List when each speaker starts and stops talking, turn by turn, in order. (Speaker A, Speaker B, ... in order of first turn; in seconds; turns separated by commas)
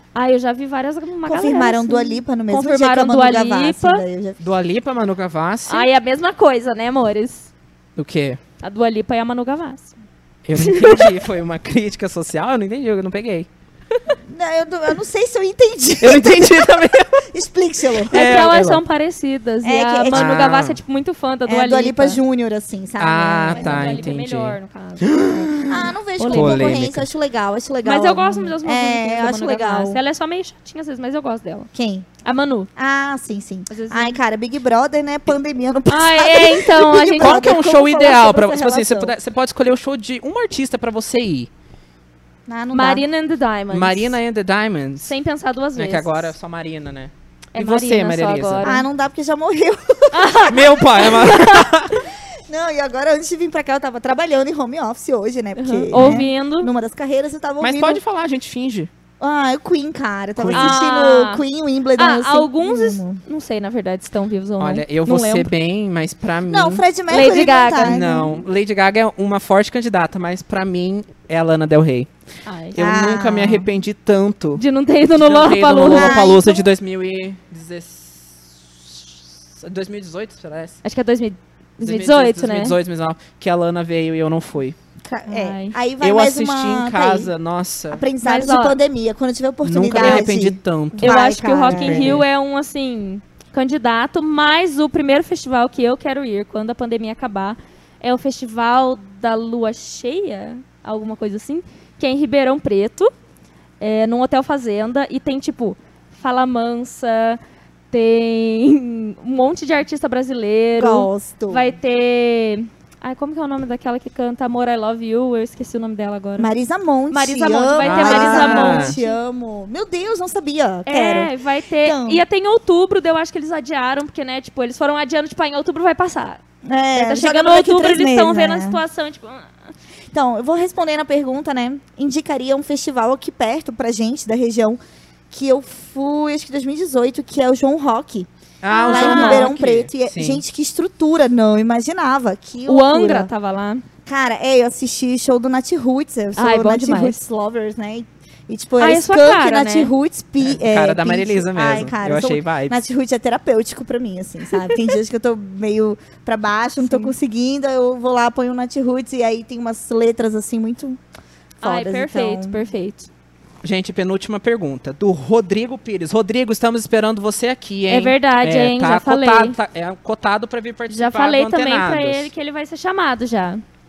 Speaker A: 0.1-4.0, Speaker B: 1.2-4.4, Speaker C: 4.4-5.9, Speaker A: 5.7-7.5, Speaker C: 8.0-8.4, Speaker A: 8.6-9.9, Speaker C: 10.4-13.5, Speaker A: 10.6-11.1, Speaker B: 14.3-18.2, Speaker C: 16.0-17.2, Speaker C: 18.0-18.8, Speaker A: 18.1-22.2, Speaker B: 19.6-20.4, Speaker C: 20.1-20.8, Speaker B: 21.5-24.2, Speaker C: 23.0-27.1, Speaker A: 23.5-26.8, Speaker B: 25.7-30.0, Speaker A: 27.9-31.7, Speaker B: 31.7-32.1, Speaker A: 32.2-32.7, Speaker B: 32.8-39.1, Speaker A: 33.7-34.2, Speaker A: 35.9-37.5, Speaker C: 37.2-41.5, Speaker B: 42.5-43.0, Speaker A: 42.7-44.2, Speaker C: 43.7-45.1, Speaker A: 45.0-46.3, Speaker C: 45.8-48.7, Speaker A: 47.5-48.9, Speaker B: 48.6-50.4, Speaker A: 50.1-51.8, Speaker C: 50.5-52.0, Speaker B: 52.5-58.0, Speaker A: 55.6-56.7, Speaker C: 55.9-56.2, Speaker C: 57.6-58.9, Speaker B: 59.2-63.2, Speaker C: 60.4-60.8, Speaker A: 60.5-61.4, Speaker A: 62.0-65.5, Speaker C: 64.6-66.8, Speaker B: 66.5-68.3, Speaker A: 67.1-68.0, Speaker C: 67.8-72.1, Speaker A: 72.5-72.8, Speaker C: 72.7-74.6, Speaker B: 72.8-73.7, Speaker A: 74.6-76.2, Speaker C: 75.2-80.8, Speaker B: 75.9-76.7, Speaker A: 80.8-82.8, Speaker C: 81.8-84.8, Speaker B: 85.0-87.3, Speaker A: 85.3-85.8, Speaker C: 86.0-88.0, Speaker B: 87.9-92.2, Speaker A: 88.2-88.8, Speaker C: 89.6-92.2, Speaker A: 91.0-103.1, Speaker A: 103.8-107.4, Speaker A: 107.9-116.5, Speaker B: 110.8-111.8, Speaker B: 116.4-121.3, Speaker A: 117.1-119.2, Speaker C: 117.8-119.0, Speaker A: 120.9-126.4, Speaker B: 121.8-122.2, Speaker B: 126.6-128.8, Speaker A: 127.0-129.5, Speaker B: 130.1-134.8, Speaker B: 135.3-138.3, Speaker C: 138.6-140.4, Speaker A: 138.7-139.5, Speaker B: 138.8-143.3, Speaker A: 142.7-143.8, Speaker B: 144.1-161.0, Speaker A: 146.4-147.2, Speaker A: 148.8-149.9, Speaker C: 150.4-152.8, Speaker A: 156.8-157.1, Speaker B: 161.6-162.6, Speaker A: 161.6-163.1, Speaker C: 163.6-172.3, Speaker A: 167.9-169.6, Speaker A: 170.9-173.6